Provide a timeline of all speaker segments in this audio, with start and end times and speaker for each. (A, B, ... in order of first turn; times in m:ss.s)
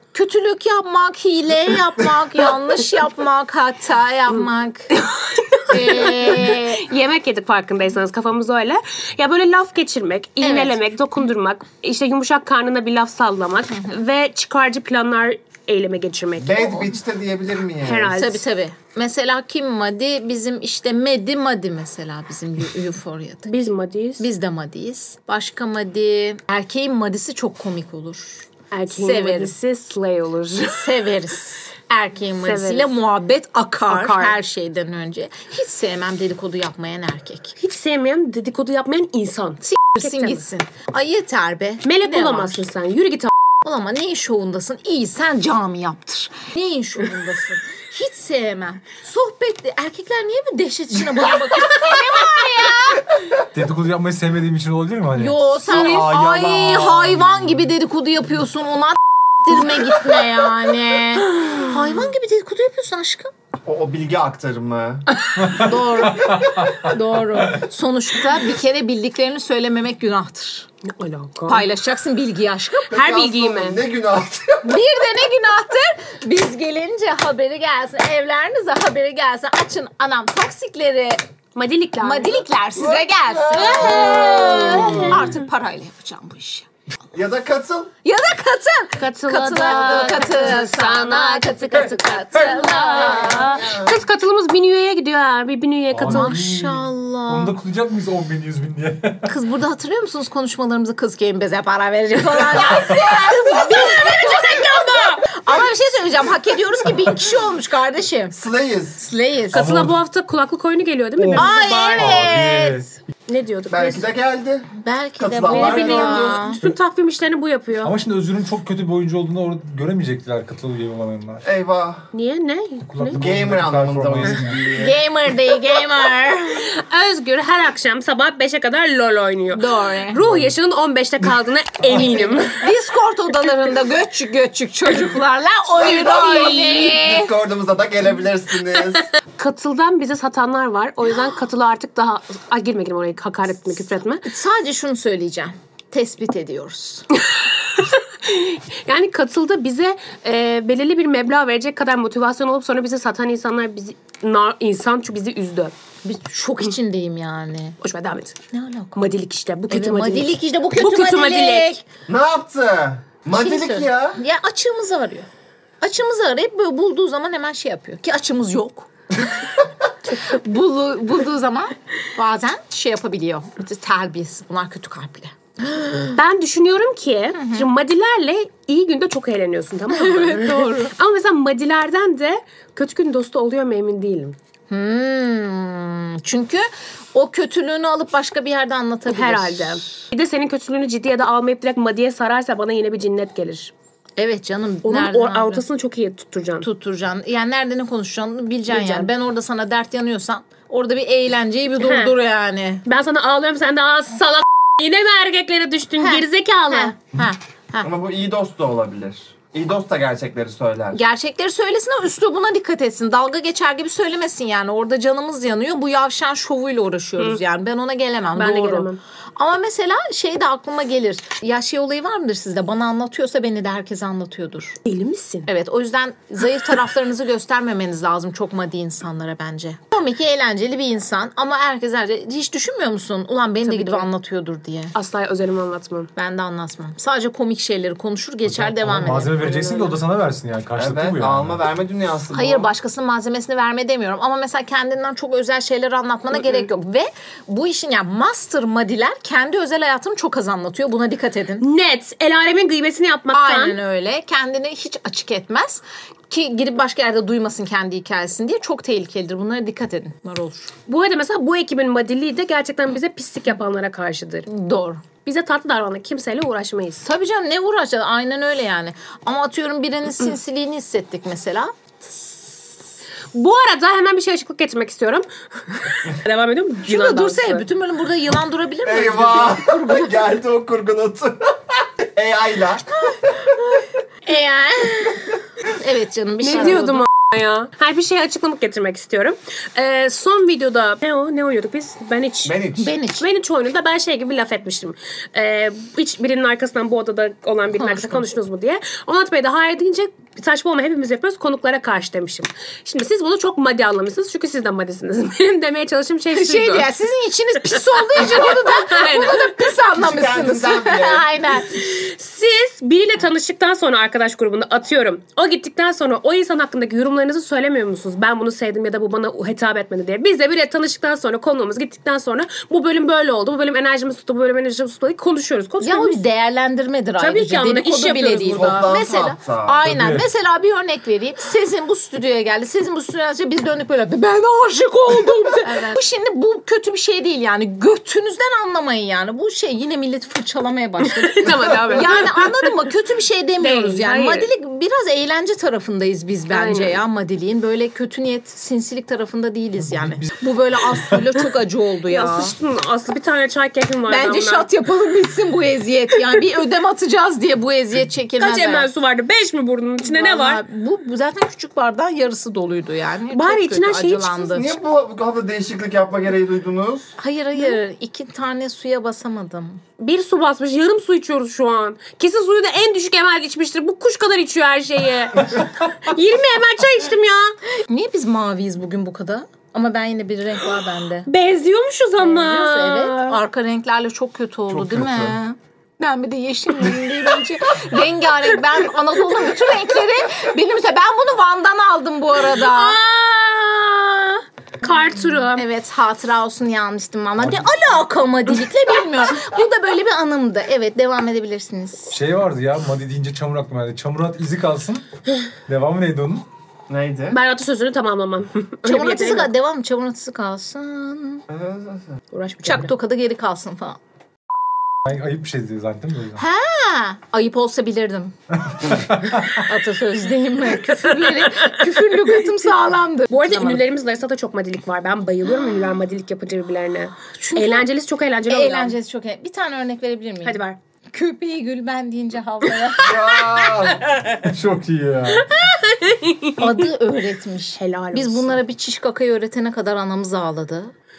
0:00.1-0:04.9 A
0:04.9-0:16.8 B
0:05.7-0:06.8 A
0:10.4-0:10.8 A
0:16.4-0:18.2 C
0:17.8-0:18.4 B
0:18.1-0:23.6 A
0:23.5-0:24.3 B
0:24.2-0:29.6 A
0:28.7-0:31.0 B
0:30.7-0:37.5 A
0:32.4-0:32.9 B
0:33.9-0:34.4 B
0:37.6-0:40.4 B
0:39.6-0:42.6 A
0:41.8-0:43.3 B
0:43.6-0:53.1 A
0:53.5-0:56.0 D
0:55.2-1:03.3 A
0:55.7-0:57.1 C
1:03.6-1:05.0 C
1:05.2-1:10.7 A
1:05.4-1:06.9 D
1:10.8-1:11.7 B
1:11.5-1:12.9 A
1:12.9-1:14.8 C
1:12.9-1:13.8 B
1:14.6-1:21.2 A
1:21.5-1:22.5 B
1:22.0-1:26.7 A
1:22.8-1:25.2 C
1:23.6-1:25.4 B
1:27.1-1:27.9 C
1:28.0-1:33.6 A
1:29.0-1:36.3 B
1:29.6-1:30.4 C
1:32.8-1:34.0 C
1:35.9-1:39.3 D
1:36.0-1:37.6 A
1:39.2-1:48.4 A
1:42.8-1:45.3 B
1:48.3-1:49.0 C
1:49.0-1:49.6 A
1:49.5-1:50.0 D
1:49.5-1:52.4 B
1:51.2-1:52.9 D
1:51.3-1:52.8 A
1:53.3-1:54.1 B
1:53.7-1:56.5 C
1:54.8-1:56.6 A
1:55.4-1:57.9 B
1:57.8-2:01.4 D
2:01.4-2:02.1 C
2:02.1-2:03.2 B
2:02.9-2:04.6 D
2:03.1-2:05.0 C
2:04.7-2:06.7 A
2:06.6-2:12.6 B
2:09.5-2:10.2 A
2:10.2-2:10.5 D
2:11.9-2:17.4 A
2:15.8-2:16.9 B
2:15.8-2:19.1 C
2:19.3-2:24.2 B
2:24.2-2:27.1 A
2:27.1-2:35.7 B
2:36.0-2:37.8 A
2:37.8-2:38.4 B
2:38.5-2:39.0 A
2:38.9-2:41.8 B
2:39.7-2:41.8 A
2:42.1-2:44.2 C
2:43.3-2:45.3 A
2:45.8-2:49.4 A
2:50.2-2:56.2 A
2:56.1-3:04.4 B
2:57.3-2:57.7 A
2:59.9-3:00.9 A
3:04.7-3:09.9 A
3:09.1-3:13.7 B
3:14.2-3:15.6 A
3:14.8-3:16.7 B
3:16.6-3:22.8 A
3:18.7-3:19.1 B
3:21.8-3:22.1 B
3:22.8-3:26.9 B
3:26.0-3:27.9 A
3:27.8-3:31.0 C
3:30.9-3:44.8 A
3:38.4-3:39.0 B
3:44.8-3:45.5 B
3:45.5-3:54.9 A
3:53.6-3:54.1 B
3:54.9-3:56.1 B
3:56.2-3:59.6 A
3:58.4-4:01.7 D
3:59.3-4:00.0 B
4:00.8-4:02.7 C
4:02.3-4:11.7 A
4:11.6-4:13.8 B
4:13.3-4:20.7 A
4:20.9-4:24.5 B
4:24.4-4:25.0 A
4:25.2-4:27.0 B
4:27.0-4:32.6 A
4:33.3-4:37.6 B
4:36.8-4:40.3 A
4:38.8-4:43.4 C
4:43.0-4:47.1 A
4:46.4-4:52.6 B
4:52.4-4:52.9 C
4:52.8-4:53.2 A
4:53.2-5:06.9 B
4:57.8-4:58.3 A
5:06.3-5:11.8 A
5:07.7-5:09.7 B
5:09.9-5:11.3 C
5:11.7-5:26.2 B
5:25.8-5:52.5 A
5:27.2-5:28.9 B
5:28.5-5:29.8 C
5:29.8-5:30.2 D
5:41.0-5:42.7 B
5:43.6-5:44.5 B
5:46.5-5:47.0 B
5:52.1-5:54.7 B
5:54.1-5:58.9 A
5:58.4-6:00.6 B
6:00.0-6:04.8 A
6:03.3-6:04.4 B
6:04.5-6:07.1 C
6:07.2-6:09.8 A
6:10.0-6:17.6 B
6:17.7-6:21.3 A
6:21.2-6:23.4 B
6:22.2-6:33.0 A
6:24.7-6:25.4 C
6:32.5-6:35.6 B
6:35.5-6:42.2 A
6:42.1-6:45.0 D
6:45.7-6:46.4 D
6:46.9-6:47.4 C
6:47.3-6:49.5 B
6:48.8-6:51.4 A
6:51.5-6:52.1 C
6:52.3-6:52.9 B
6:52.6-6:54.0 A
6:55.0-6:56.4 D
6:56.4-6:58.3 A
6:58.9-6:59.5 D
6:59.5-7:03.9 A
7:01.0-7:02.4 B
7:03.3-7:09.0 B
7:07.4-7:07.9 A
7:08.5-7:13.8 A
7:10.4-7:10.8 B
7:13.0-7:14.0 C
7:14.4-7:15.5 D
7:15.4-7:16.8 B
7:16.6-7:20.9 A
7:17.8-7:18.6 B